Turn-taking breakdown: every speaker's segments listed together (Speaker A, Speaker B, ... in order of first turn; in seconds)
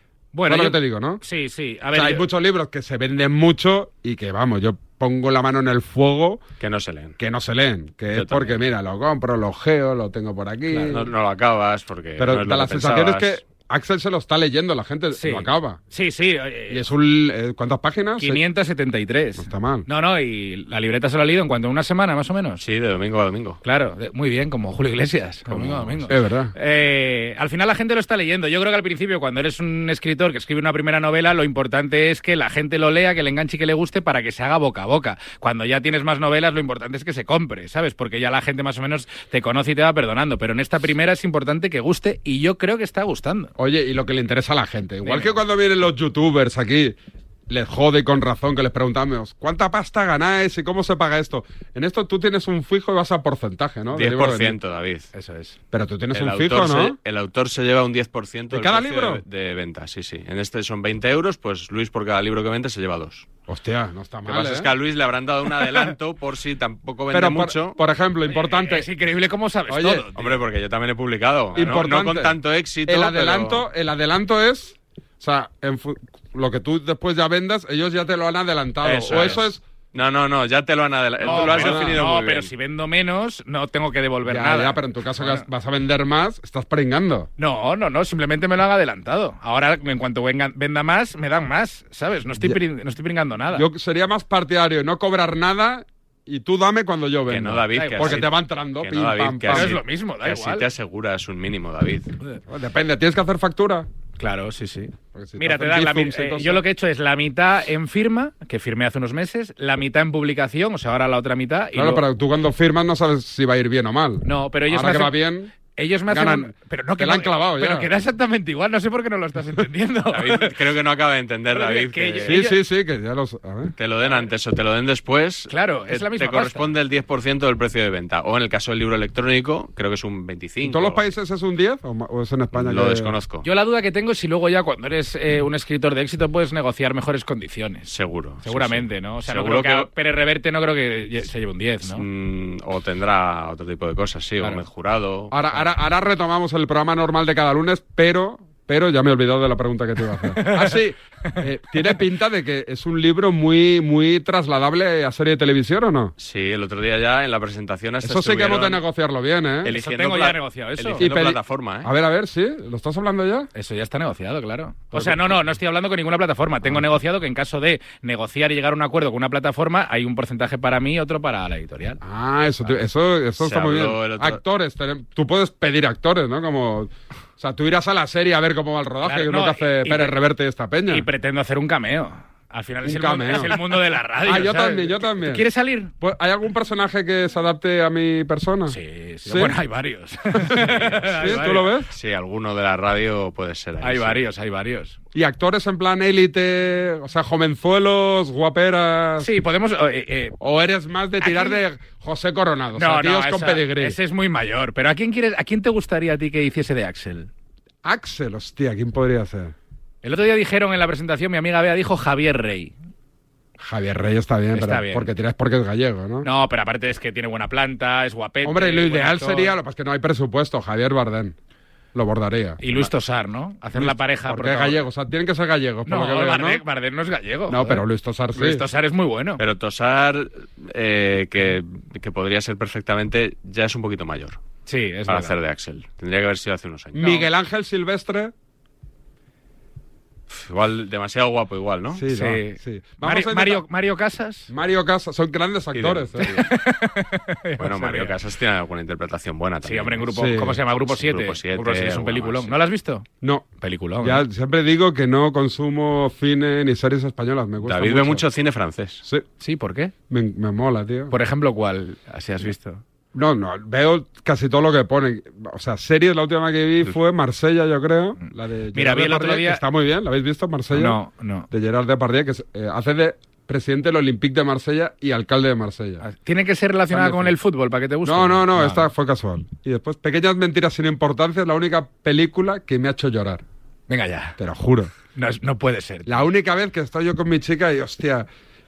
Speaker A: 0.3-2.2, 15.2-16.8, 18.2-22.6, 23.6-43.5, 45.0-45.4, 55.1-55.6, 68.3-70.4, 81.2-85.5, 87.4-93.7, 97.7-98.2, 99.5-100.7, 104.2-112.0, 114.2-115.2, 115.7-120.5, 121.5-122.6, 125.5-126.7, 133.4-137.9, 138.4-142.0, 150.4-150.8, 159.7-161.1, 163.5-172.0, 179.0-180.2, 180.9-185.9, 188.7-191.8, 193.8-195.0, 199.2-200.4, 201.2-201.6, 202.8-207.3, 210.0-212.7, 214.5-215.1, 216.2-219.5, 222.6-224.8, 225.9-229.4, 234.7-235.3, 242.1-244.5, 246.2-248.1, 249.6-253.1, 253.6-254.2, 259.4-259.9, 261.1-262.8, 268.7-269.6, 270.7-271.5, 276.0-278.9, 283.9-284.4, 285.1-286.2
Speaker B: 0.5-1.2, 1.9-6.4, 7.2-11.1, 12.2-15.8, 16.7-18.4, 19.4-19.9, 26.1-26.5, 43.6-47.0, 47.5-54.6, 55.7-57.0, 58.5-59.2, 63.5-64.7, 67.1-68.9, 69.7-70.1, 71.5-79.6, 81.2-82.0, 84.2-87.3, 93.5-99.8, 102.5-103.9, 105.1-106.6, 111.7-115.5, 116.1-117.9, 122.2-123.7, 130.6-133.1, 145.3-156.1, 158.0-159.7, 161.0-163.5, 164.9-165.2, 172.0-181.1, 182.8-183.6, 184.2-185.4, 186.0-189.5, 190.4-191.9, 195.1-199.3, 200.4-204.0, 207.8-209.5, 213.6-216.3, 218.4-221.4, 221.9-222.6, 223.8-226.6, 227.5-228.6, 236.9-238.3, 241.9-243.6, 244.5-246.3, 250.1-250.6, 253.2-253.5, 254.0-258.2, 260.1-261.1, 263.1-271.0, 271.5-276.0, 276.9-277.4, 278.0-283.4, 284.4-284.9, 286.1-288.3
Speaker C: 6.6-7.2, 8.1-8.6, 10.7-13.4, 22.6-23.6, 25.5-26.1, 53.9-55.1, 56.1-63.3, 64.3-67.8, 70.2-73.7, 78.8-82.5, 97.3-102.1, 120.1-122.4, 123.8-131.0, 132.5-133.5, 137.9-139.9, 141.9-145.7, 156.2-158.8, 159.6-161.9, 173.4-174.4, 190.7-191.1, 191.9-194.2, 229.4-234.4, 235.1-237.2, 240.3-242.0, 245.7-246.5, 247.6-250.1, 250.9-252.5, 257.6-259.0